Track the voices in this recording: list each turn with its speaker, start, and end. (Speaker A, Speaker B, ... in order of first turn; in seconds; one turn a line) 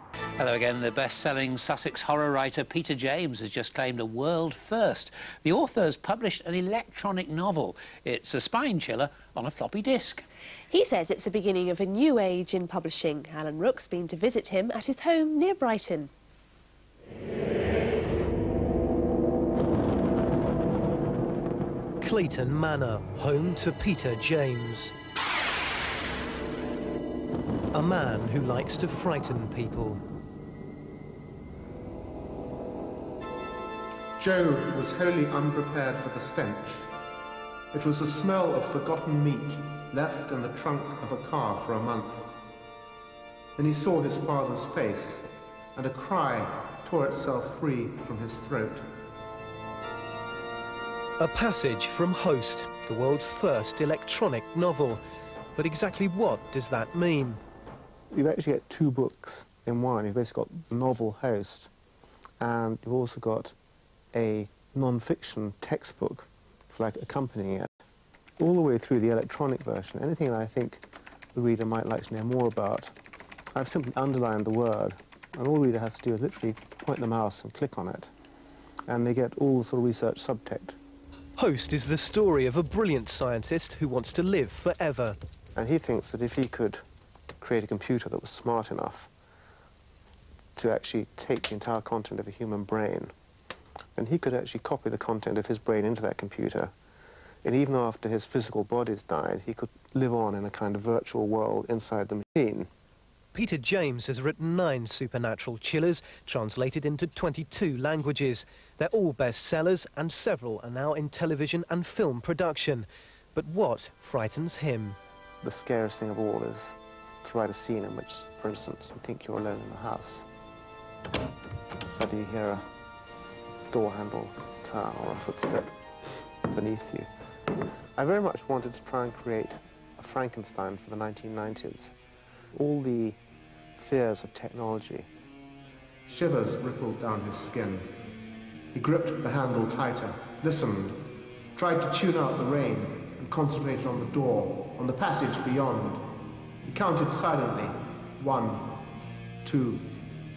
Speaker A: 0.4-10.2
Speaker B: 10.7-16.1
Speaker C: 22.0-24.9
Speaker C: 27.7-30.0
Speaker D: 34.2-36.9
Speaker D: 37.7-42.3
Speaker D: 43.6-48.9
Speaker C: 51.2-55.0
Speaker C: 55.5-57.4
Speaker D: 58.1-61.7
Speaker D: 62.4-63.5
Speaker D: 64.1-67.7
Speaker D: 68.4-70.8
Speaker D: 71.3-72.9
Speaker D: 73.5-78.1
Speaker D: 78.9-80.8
Speaker C: 81.4-85.2
Speaker D: 85.6-86.8
Speaker D: 87.4-89.1
Speaker D: 90.6-93.1
Speaker D: 94.0-96.7
Speaker D: 97.4-102.7
Speaker C: 103.3-115.0
Speaker D: 115.4-120.3
Speaker D: 121.8-122.6
Speaker D: 123.7-125.7
Speaker D: 126.5-127.1
Speaker D: 128.0-131.9
Speaker D: 132.5-133.2
Speaker D: 133.8-135.1
Speaker D: 136.1-137.9
Speaker D: 138.7-141.0
Speaker D: 141.6-146.0
Speaker D: 146.6-148.7
Speaker D: 149.4-149.9